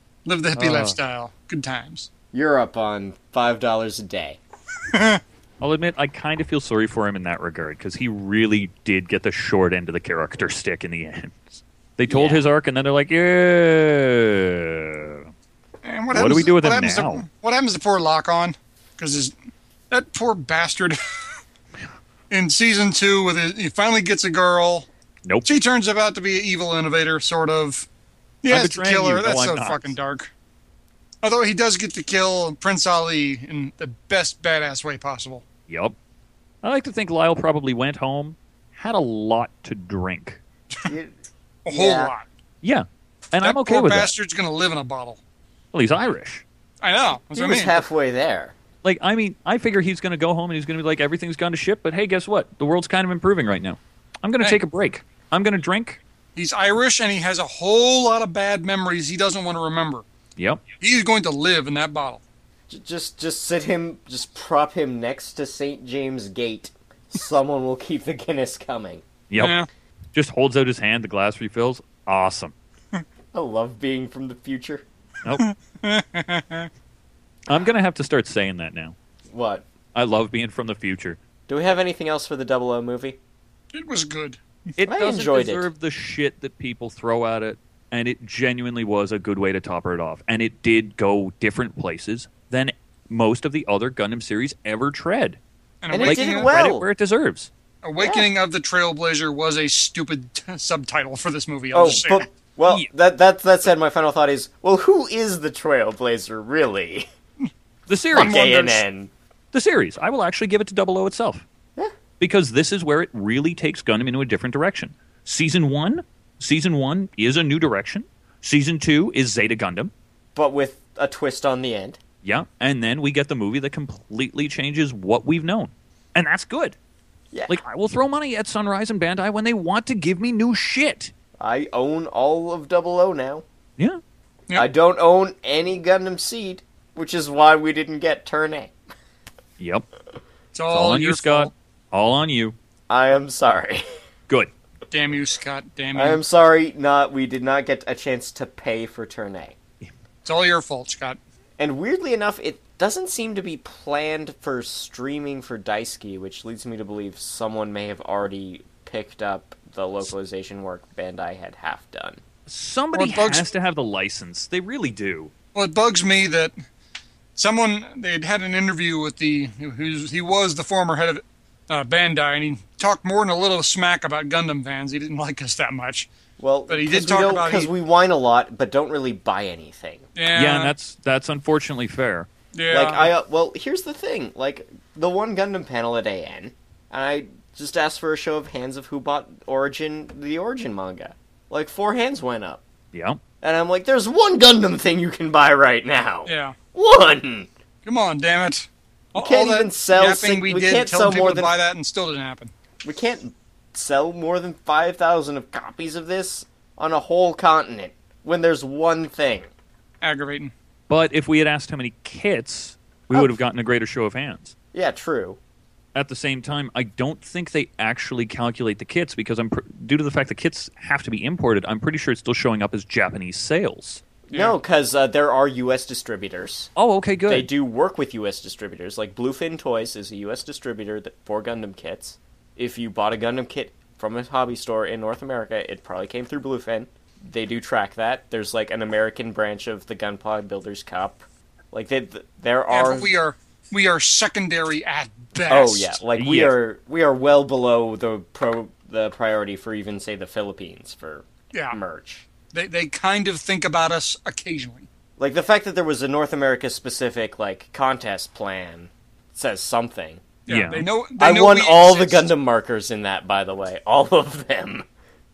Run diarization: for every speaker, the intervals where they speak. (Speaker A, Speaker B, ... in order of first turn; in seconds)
Speaker A: 0.2-2.1, 4.9-5.2, 15.8-19.3, 19.9-21.0, 22.3-24.9, 25.4-27.9, 28.4-30.3, 31.2-35.4, 41.6-42.2, 43.4-45.2, 46.8-47.8, 56.4-60.0, 60.8-62.2, 69.4-69.7, 75.4-76.7, 83.7-84.4, 95.8-96.5, 97.8-102.2, 108.2-108.8, 140.5-141.5, 144.9-146.2, 150.2-151.2, 162.9-163.5, 165.5-166.5, 167.3-176.1, 176.7-177.7, 180.2-180.7, 182.5-183.1, 196.2-196.6, 197.8-202.5, 210.0-210.5, 224.3-224.6, 242.7-246.0, 252.5-254.9, 260.5-262.3
Speaker B: 0.6-1.0, 5.6-15.3, 16.1-17.2, 28.5-29.9, 35.7-35.9, 36.6-40.4, 42.6-44.1, 45.7-46.4, 48.8-56.0, 60.4-60.6, 69.3-69.6, 70.1-72.5, 77.5-78.9, 79.9-81.2, 84.8-95.4, 96.0-97.5, 107.9-108.5, 109.5-111.4, 112.2-119.9, 122.2-126.8, 127.5-131.1, 139.6-139.9, 140.7-142.6, 162.5-165.3, 180.3-182.3, 192.9-193.2, 210.9-214.5, 215.9-224.0, 226.8-227.5, 246.2-246.6, 260.5-260.8
Speaker C: 2.3-4.4, 12.1-12.4, 40.8-41.1, 41.7-42.1, 47.3-48.5, 62.7-69.0, 73.3-74.8, 79.3-79.6, 81.5-83.2, 84.8-85.7, 95.9-96.9, 98.0-98.3, 101.7-107.1, 108.1-109.1, 120.3-122.0, 127.3-127.6, 131.4-133.4, 134.5-138.7, 142.9-143.8, 145.9-149.6, 151.6-162.2, 176.4-180.0, 182.7-192.6, 193.4-197.5, 199.1-201.5, 202.8-209.5, 214.7-215.4, 224.3-226.7, 227.3-243.1, 245.5-252.3, 255.2-260.2, 261.2-264.9